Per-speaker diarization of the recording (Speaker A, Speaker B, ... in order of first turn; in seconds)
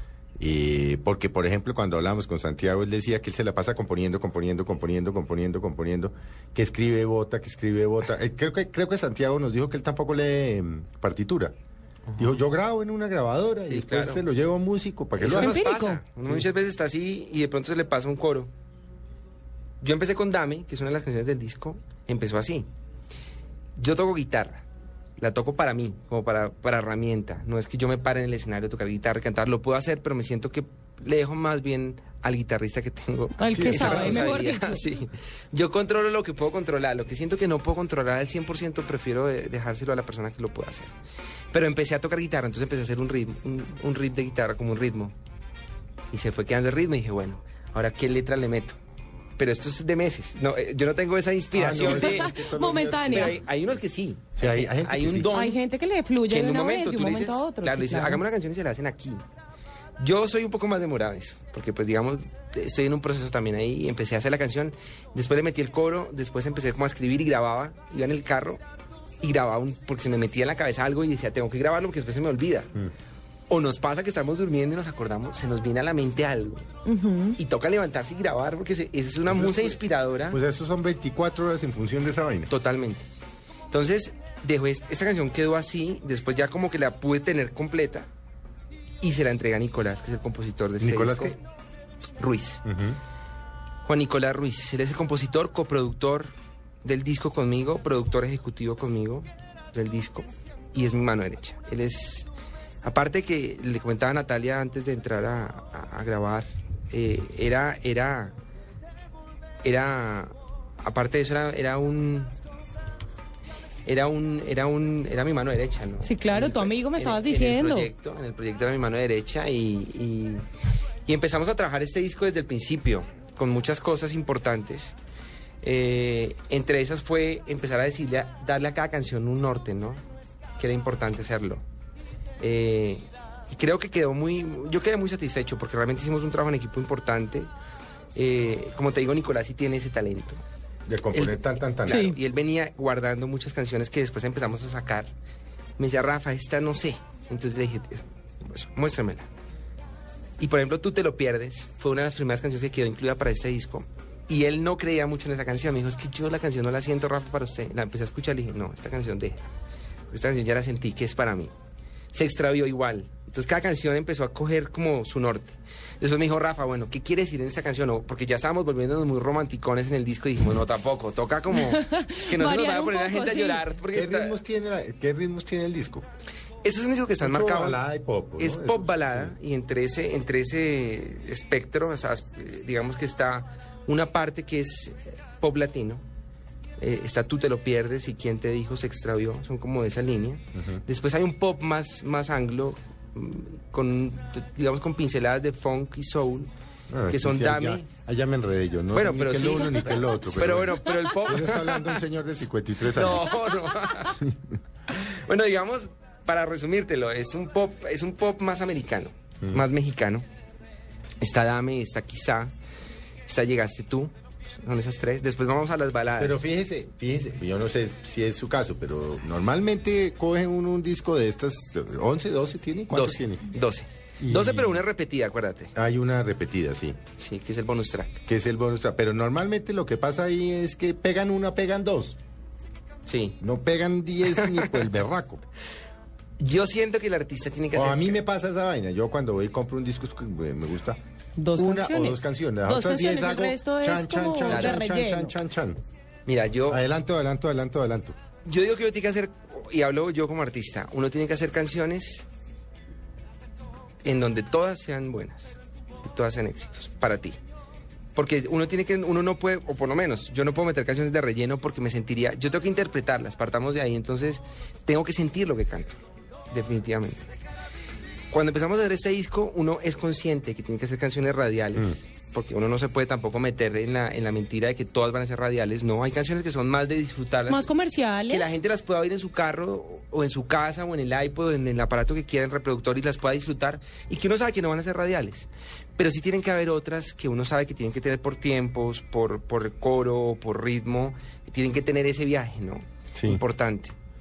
Speaker A: 0.4-11.6, 12.2-15.6, 33.5-34.5, 51.5-53.4, 54.4-55.3, 79.3-79.8, 80.3-82.5, 90.8-91.3, 92.7-93.0, 140.9-142.1, 173.9-176.1, 177.2-179.3, 190.6-190.8, 196.9-203.3, 204.1-204.5, 216.2-223.5, 224.2-224.8, 225.8-227.0, 228.3-232.2, 233.4-235.5, 237.7-241.0, 241.5-245.8, 246.7-248.2, 293.1-293.4
Speaker B: 12.1-12.4, 13.7-14.2, 15.2-18.5, 19.8-22.7, 23.8-24.6, 25.2-40.9, 41.5-45.1, 46.1-48.8, 49.4-52.4, 53.0-55.6, 56.3-59.2, 60.0-68.6, 69.2-72.7, 73.5-76.7, 77.4-80.4, 82.5-83.1, 83.7-88.1, 89.0-91.4, 92.2-92.6, 93.8-96.3, 96.8-102.3, 102.8-108.4, 109.6-112.3, 113.9-120.5, 121.1-125.0, 125.6-130.0, 130.6-131.6, 132.4-137.5, 138.2-140.4, 141.1-145.1, 145.8-149.3, 150.4-159.5, 160.1-161.5, 162.1-174.4, 176.6-177.8, 178.4-186.0, 186.8-196.5, 197.1-197.9, 198.9-202.0, 202.9-204.2, 204.9-210.3, 211.2-212.5, 213.3-216.5, 222.9-225.7, 227.2-228.2, 233.1-233.4, 234.3-234.9, 236.4-238.2, 244.4-244.9, 246.3-246.8, 248.4-252.3, 254.0-257.4, 258.1-266.0, 266.5-267.3, 268.3-277.7, 278.3-293.9
Speaker C: 15.3-16.0, 33.4-35.0, 51.8-53.4, 55.3-58.2, 76.8-77.4, 116.0-117.9, 141.9-142.2, 171.5-173.7, 241.4-245.3, 277.5-278.5